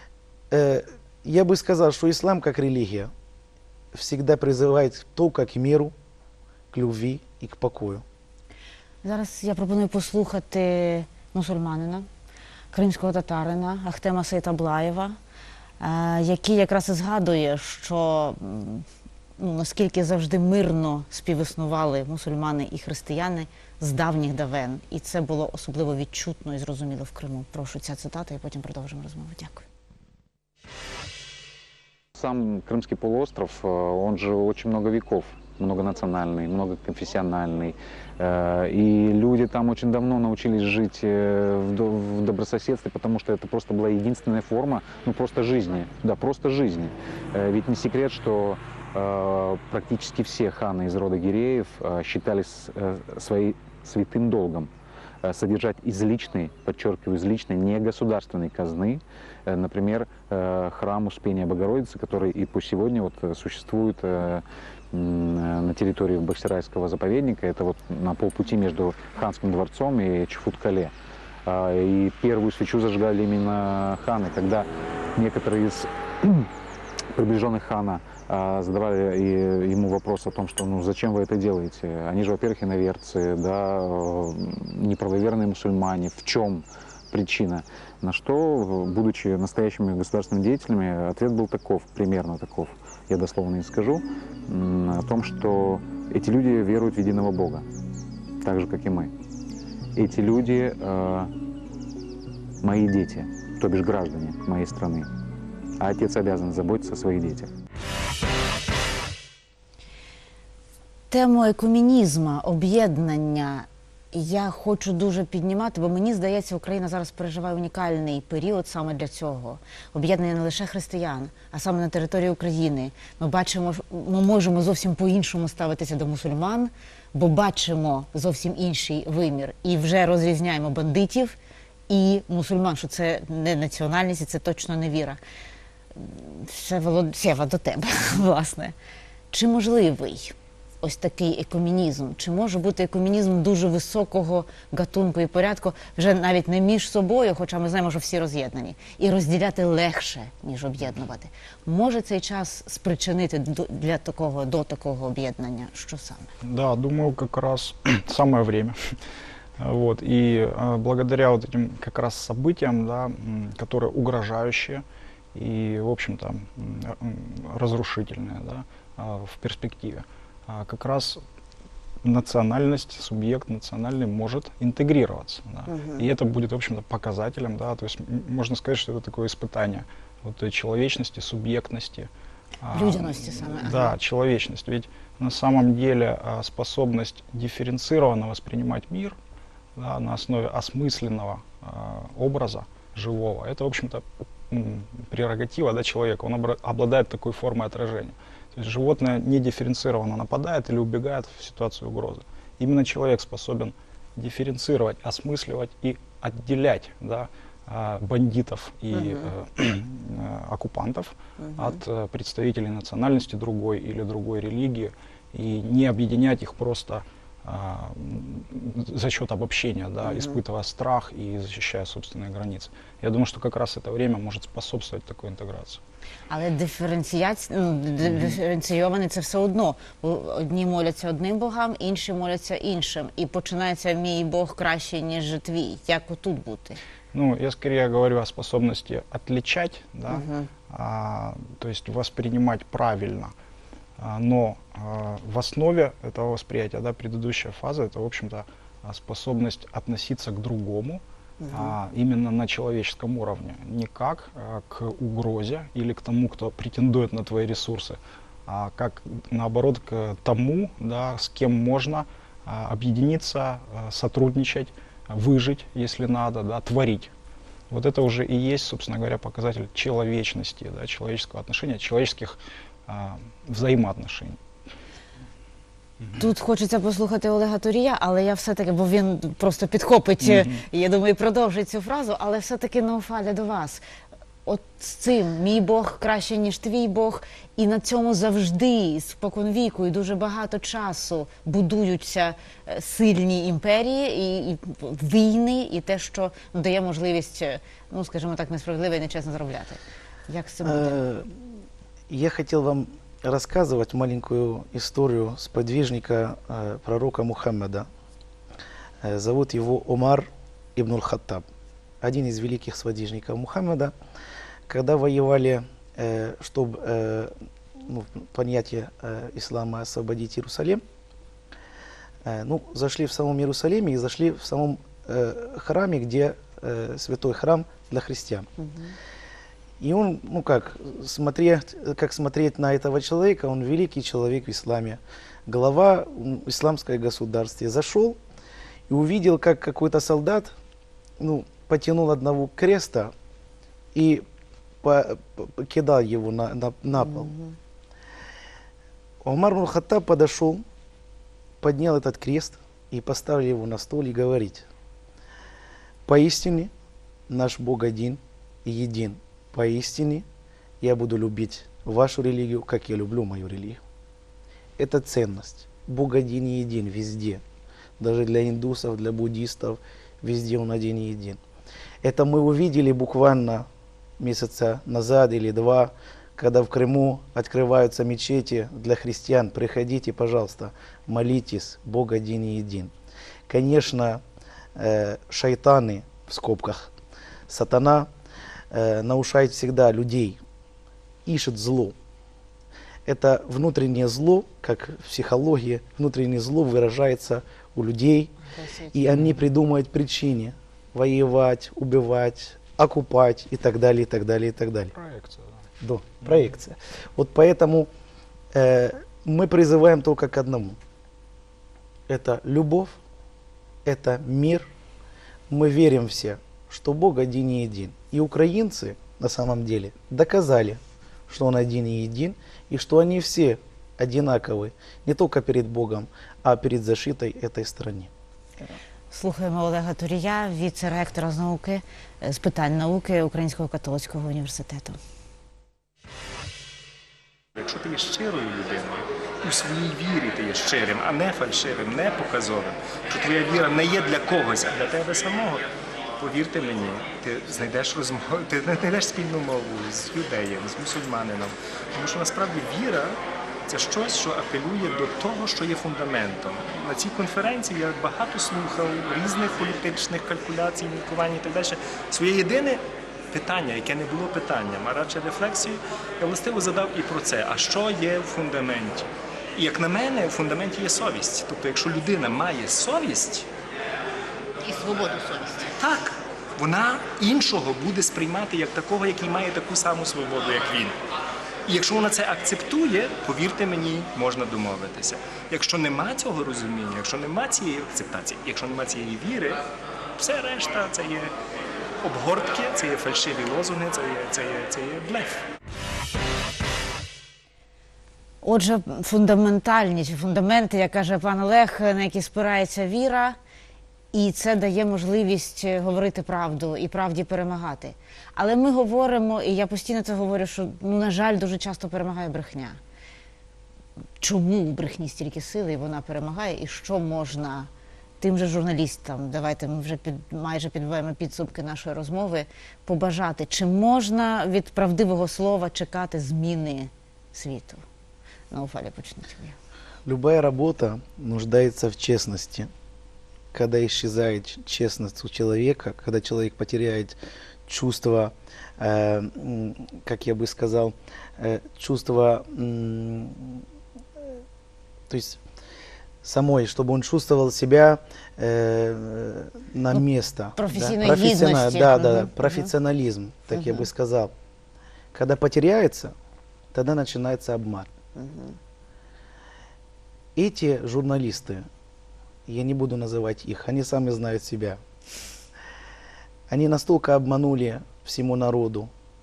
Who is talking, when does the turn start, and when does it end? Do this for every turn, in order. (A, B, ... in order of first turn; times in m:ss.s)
0:00.5-0:03.1 A
0:03.9-0:05.9 A
0:06.7-0:08.0 A
0:09.0-0:12.1 B
0:12.7-0:15.2 B
0:15.8-0:18.8 B
0:19.4-0:29.6 B
0:32.2-0:54.7 C
0:55.2-1:10.9 C
1:11.4-1:16.5 C
1:17.1-1:37.6 C
1:38.4-1:39.1 C
1:39.9-1:41.3 C
1:42.6-1:45.1 C
1:45.8-1:47.5 C
1:51.1-2:11.4 B
2:11.9-2:15.2 B
2:15.9-2:18.7 B
2:19.3-2:36.3 B
2:36.4-2:39.0 D
2:39.6-2:51.2 D
2:52.0-3:02.1 D
2:55.7-2:56.0 B
3:02.6-3:09.2 D
3:02.7-3:04.0 B
3:09.8-3:45.8 D
3:28.9-3:29.3 B
3:31.4-3:31.8 B
3:40.0-3:40.4 B
3:46.3-3:56.8 B
3:57.1-4:03.3 D
4:00.1-4:00.5 B
4:04.0-4:27.1 D
4:11.4-4:11.8 B
4:27.7-4:34.4 D
4:36.1-4:43.8 B
4:40.2-4:40.6 D
4:44.4-5:01.0 B
5:00.6-5:01.4 A
5:02.1-5:07.9 A
5:09.0-5:11.4 A
5:12.0-5:13.9 A
5:14.7-5:20.8 A
5:22.2-5:28.5 A
5:28.6-5:28.9 B
5:29.8-5:38.2 A
5:38.9-5:40.5 A
5:41.2-5:43.1 A
5:43.9-5:44.2 A
5:44.8-5:47.3 A
5:47.3-5:47.5 B
5:49.2-5:50.6 A
5:51.6-5:54.6 A
5:56.0-5:56.7 A
5:57.3-6:00.2 A
6:00.8-6:03.8 A
6:04.8-6:07.4 A
6:08.0-6:11.4 A
6:12.0-6:13.7 A
6:14.2-6:22.9 A
6:23.5-6:24.2 A
6:24.8-6:26.9 A
6:27.5-6:28.1 A
6:28.7-6:30.4 A
6:31.2-6:32.0 A
6:33.0-6:38.3 A
6:38.5-6:39.1 B
6:38.9-6:44.9 A
6:44.9-6:45.6 D
6:45.8-6:47.9 A
6:48.5-6:50.8 A
6:52.1-6:53.0 A
6:53.8-6:54.7 A
6:55.5-7:08.1 A
7:09.1-7:15.0 B
7:17.5-7:25.6 E
7:26.2-7:53.5 E
7:54.6-7:55.7 B
7:55.7-8:01.0 E
8:01.6-8:09.6 E
8:10.2-8:11.3 E
8:12.0-8:15.4 E
8:18.4-8:23.4 B
8:24.1-8:32.8 B
8:34.2-8:37.7 B
8:38.2-8:47.8 B
8:48.5-8:49.6 B
8:50.0-8:52.7 A
8:53.5-9:03.6 A
9:05.1-9:05.4 A
9:06.2-9:14.3 A
9:10.6-9:12.7 B
9:13.5-9:13.8 B
9:15.1-9:16.1 A
9:16.7-9:17.9 A
9:18.1-9:18.6 B
9:20.4-9:21.7 A
9:22.5-9:24.8 A
9:26.5-9:28.9 A